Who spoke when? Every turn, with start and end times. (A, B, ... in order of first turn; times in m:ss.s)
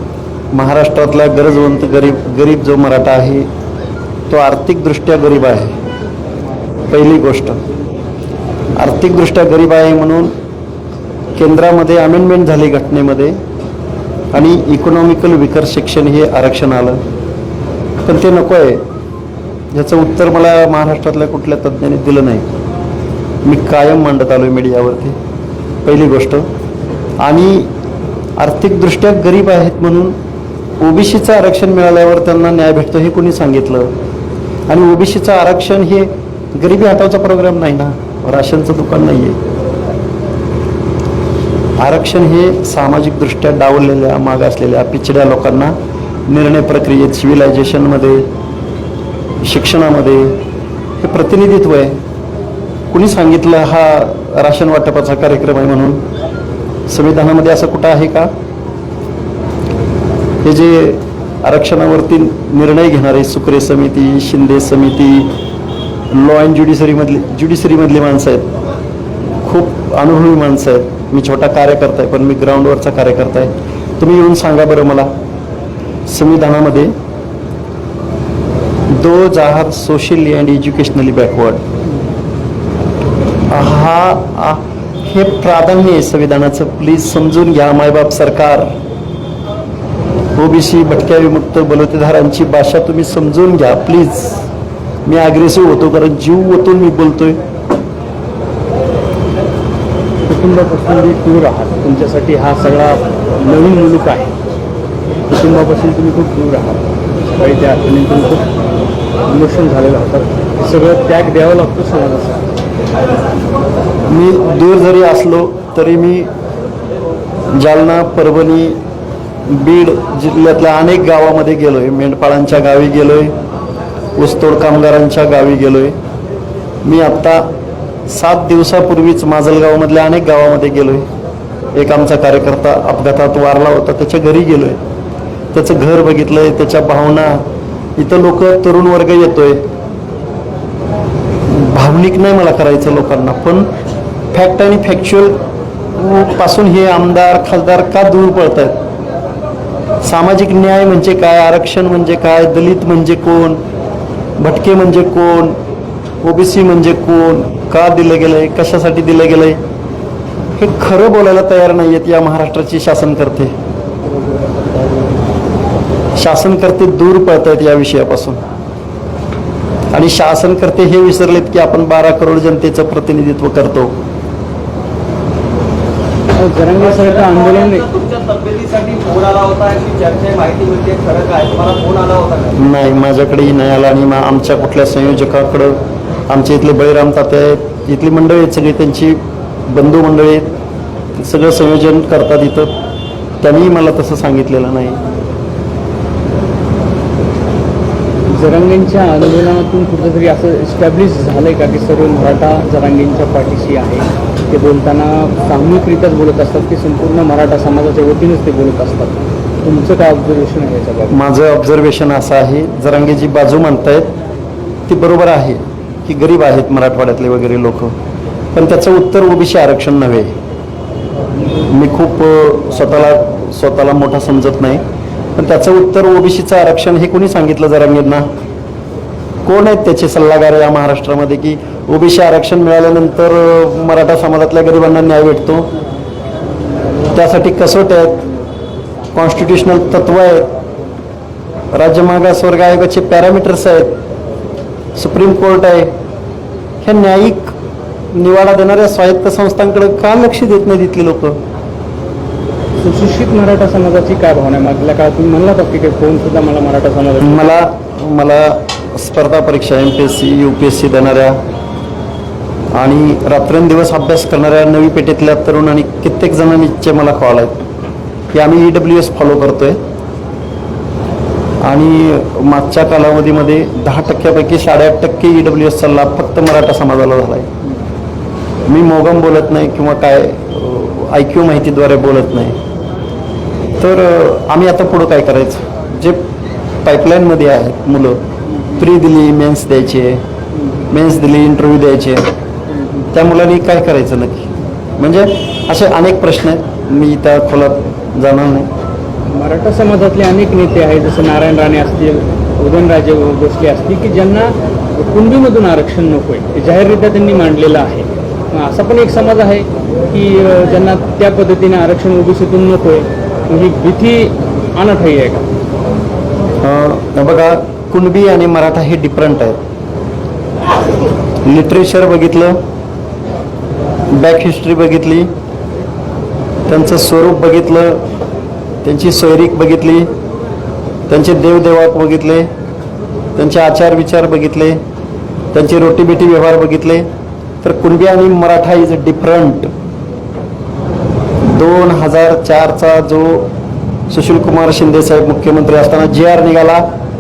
0:00.5-0:03.5 A
0:04.3-0:05.7 A
0:06.9-0:07.6 A
0:08.8-0:10.3 A
0:11.4-0:13.4 A
0:14.3-0:17.0 A
0:18.0-0:18.8 A
0:19.7-0:22.5 A
0:23.4-0:25.2 A
0:25.8-0:26.5 A
0:27.2-0:27.7 A
0:28.4-0:30.2 A
0:30.8-0:33.9 A
0:34.7-0:39.4 A
0:41.8-0:45.8 A
0:46.3-0:48.3 A
0:49.4-0:50.4 A
0:51.0-0:52.0 A
0:52.9-0:56.0 A
0:56.9-0:58.3 A
1:00.4-1:05.4 A
1:06.1-1:08.5 A
1:09.4-1:15.1 A
1:16.1-1:16.9 A
1:18.9-1:21.6 A
1:23.5-1:28.7 A
1:30.4-1:34.5 A
1:35.0-1:37.4 A
1:40.3-1:44.3 B
1:45.3-1:48.5 B
1:49.3-1:52.5 B
1:54.1-1:56.3 A
1:57.5-1:58.8 A
1:59.5-2:03.3 A
2:04.2-2:06.0 A
2:06.8-2:07.5 A
2:08.1-2:11.1 A
2:11.8-2:14.8 A
2:15.5-2:17.4 A
2:18.0-2:19.6 A
2:21.5-2:23.7 A
2:24.3-2:25.4 A
2:26.0-2:28.8 A
2:30.0-2:33.6 A
2:34.4-2:35.6 A
2:36.2-2:39.6 A
2:40.6-2:43.5 A
2:46.2-2:48.4 A
2:49.9-2:54.0 A
2:56.3-2:58.0 B
2:58.0-3:02.5 C
3:02.5-3:10.5 A
3:11.2-3:12.7 A
3:13.4-3:15.0 A
3:18.3-3:31.2 B
3:31.1-3:34.1 A
3:34.9-3:37.9 A
3:38.5-3:40.3 A
3:41.7-3:44.8 A
3:45.4-3:48.3 A
3:49.4-3:55.7 A
3:57.1-3:58.3 A
3:59.1-4:00.5 A
4:01.7-4:04.0 A
4:05.0-4:05.9 A
4:06.8-4:07.5 A
4:08.1-4:11.4 A
4:12.8-4:17.6 B
4:17.2-4:21.4 A
4:22.8-4:27.6 A
4:28.3-4:29.8 A
4:31.6-4:37.5 A
4:38.6-4:42.6 A
4:43.8-4:46.2 A
4:46.8-4:48.2 A
4:48.8-4:50.2 A
4:50.9-4:52.3 A
4:52.7-4:53.1 B
4:53.1-4:58.7 A
4:59.3-5:15.5 B
5:16.6-5:19.6 A
5:21.4-5:22.6 A
5:24.1-5:25.3 A
5:26.7-5:28.0 A
5:28.8-5:30.1 A
5:31.1-5:32.5 A
5:33.4-5:34.8 A
5:35.5-5:37.1 A
5:37.6-5:39.7 A
5:41.4-5:43.5 A
5:44.1-5:46.8 A